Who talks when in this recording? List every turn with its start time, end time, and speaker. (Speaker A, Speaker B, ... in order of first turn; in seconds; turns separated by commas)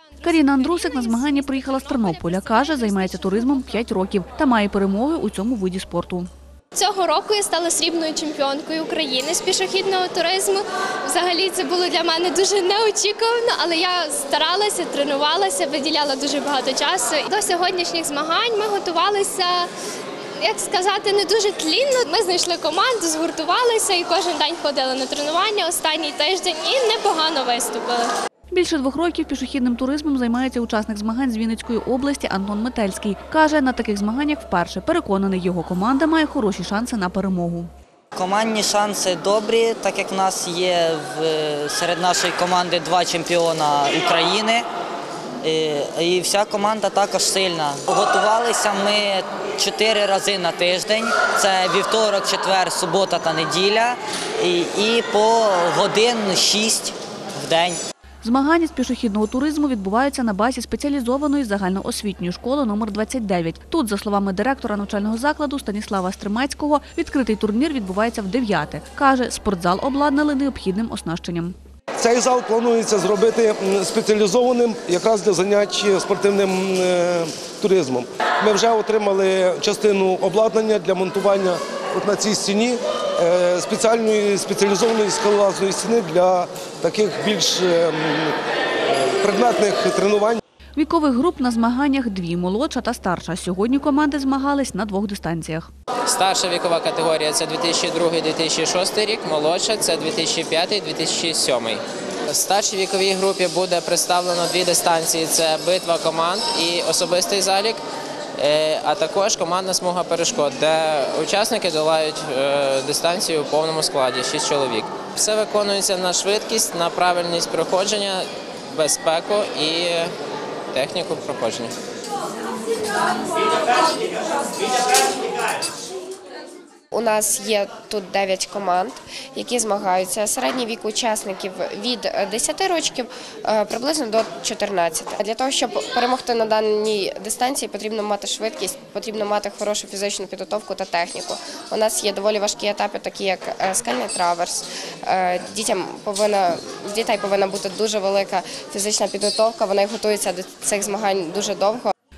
Speaker A: 0.2-3.7, Speaker B: 0.2-6.3, Speaker A: 6.7-19.7, Speaker A: 20.4-28.1, Speaker B: 28.5-37.7, Speaker C: 38.1-44.7, Speaker C: 45.4-57.8, Speaker B: 58.2-71.5, Speaker D: 72.0-88.3, Speaker D: 88.9-90.4, Speaker B: 90.8-95.7, Speaker E: 96.1-107.8, Speaker E: 108.4-120.1, Speaker E: 120.7-121.7, Speaker F: 126.9-151.9